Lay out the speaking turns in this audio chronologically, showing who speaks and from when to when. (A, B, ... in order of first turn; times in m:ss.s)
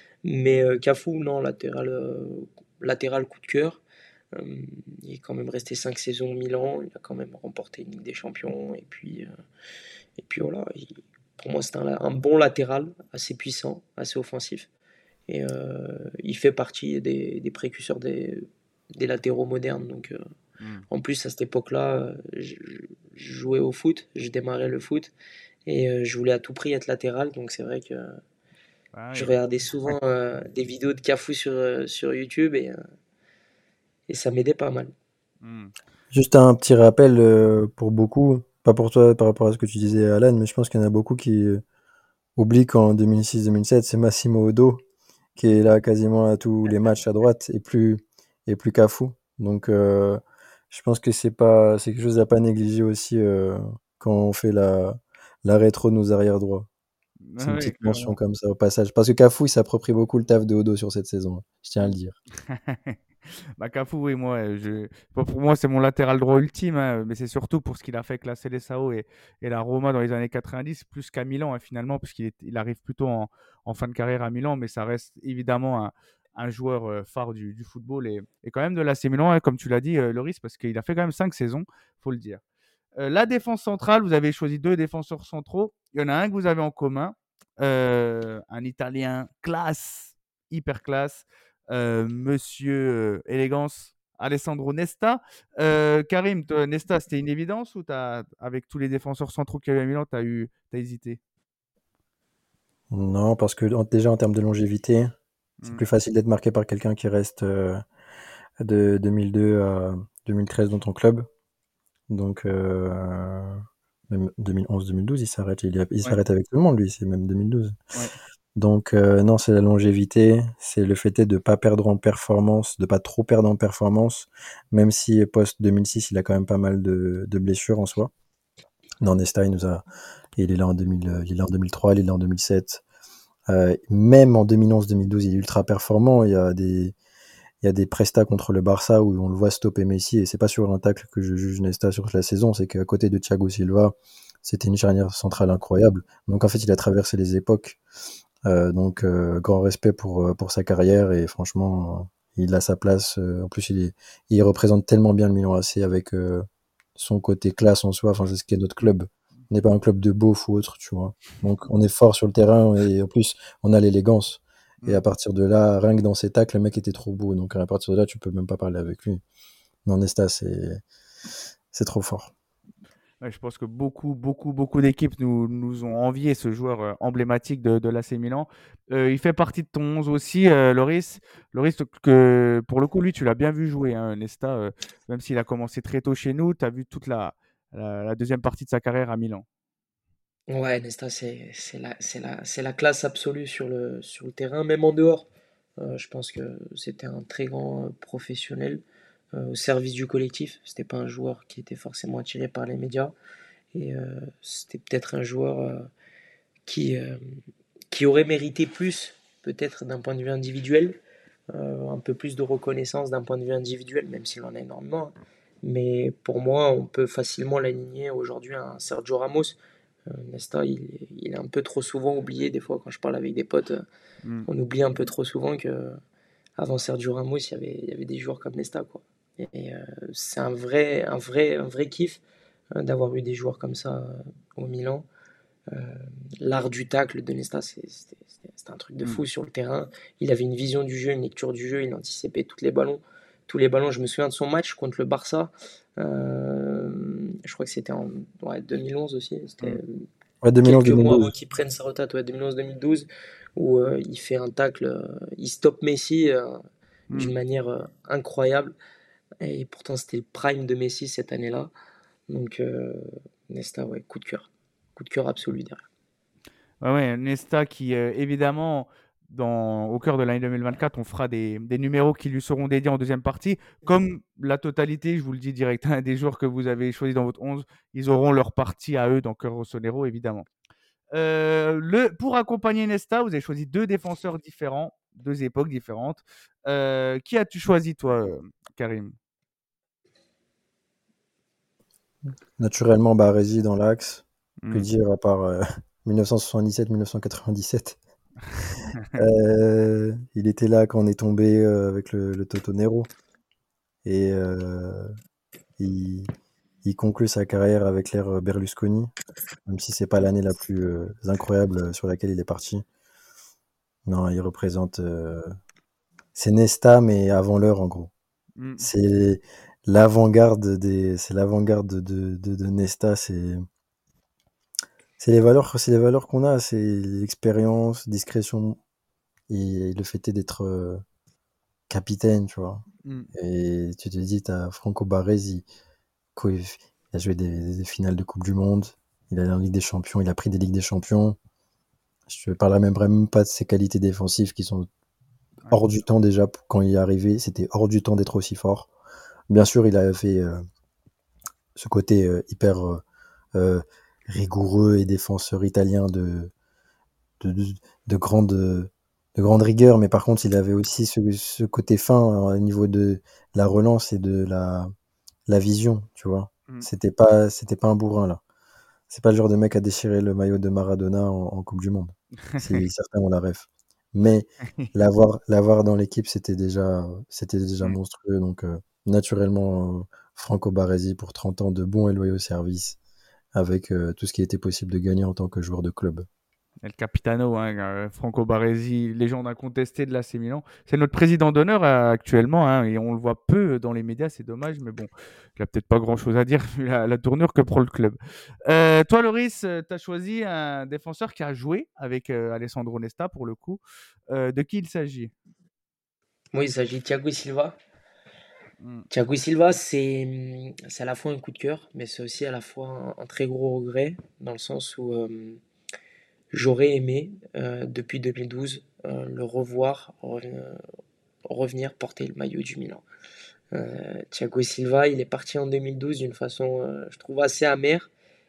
0:00.2-0:03.8 A
0:04.3-0:09.3 A
0:10.2-0:14.7 A
0:15.3-0:20.2 A
0:20.9-0:25.1 A
0:25.6-0:28.2 A
0:28.9-0:29.3 B
0:29.1-0:32.8 A
0:34.1-0:34.9 A
0:35.4-0:35.7 B
0:36.1-0:41.6 C
0:42.4-0:44.8 C
0:45.4-0:56.7 C
0:57.3-0:58.2 B
0:57.4-1:02.2 C
1:01.8-1:03.0 B
1:03.6-1:22.4 B
1:23.0-1:41.2 B
1:42.9-1:45.1 C
1:45.6-1:47.8 C
1:48.6-1:51.3 C
1:52.1-1:57.8 C
1:58.6-2:08.1 C
2:09.0-2:09.8 C
2:10.4-2:12.8 C
2:13.5-2:16.9 C
2:17.6-2:27.8 C
2:28.4-2:49.2 C
2:49.8-2:50.8 C
2:51.7-2:52.3 C
2:53.2-3:09.4 B
3:10.5-3:15.3 A
3:15.8-3:18.8 A
3:19.3-3:23.1 A
3:23.7-3:25.9 A
3:26.6-3:27.2 A
3:27.9-3:31.0 A
3:31.5-3:43.8 A
3:44.4-3:46.0 A
3:46.6-3:52.2 A
3:52.7-3:55.0 A
3:55.7-4:10.0 A
4:10.4-4:11.3 C
4:10.6-4:16.6 A
4:17.1-4:18.7 A
4:19.4-4:21.7 A
4:22.3-4:25.8 A
4:26.8-4:40.5 B
4:41.1-4:49.1 B
4:52.6-4:58.0 C
4:54.6-4:54.9 B
4:59.1-5:03.1 C
5:04.0-5:05.1 C
5:05.8-5:06.3 C
5:06.8-5:09.1 C
5:09.6-5:12.8 C
5:14.0-5:15.6 C
5:16.3-5:18.1 C
5:18.6-5:18.9 B
5:18.8-5:23.6 C
5:25.2-5:28.8 C
5:29.5-5:31.0 C
5:31.9-5:35.6 C
5:36.4-5:41.4 C
5:42.3-5:44.9 C
5:45.7-5:48.9 C
5:49.5-5:50.6 C
5:51.8-5:53.0 C
5:53.5-5:56.5 C
5:57.4-6:04.9 C
6:05.5-6:08.4 C
6:09.1-6:23.0 C
6:12.5-6:12.8 B
6:23.5-6:26.3 C
6:26.8-6:45.3 B
6:46.5-6:47.8 A
6:48.8-6:49.1 B
6:49.1-6:55.6 A
6:56.5-7:00.8 A
7:01.5-7:03.0 A
7:03.7-7:08.1 A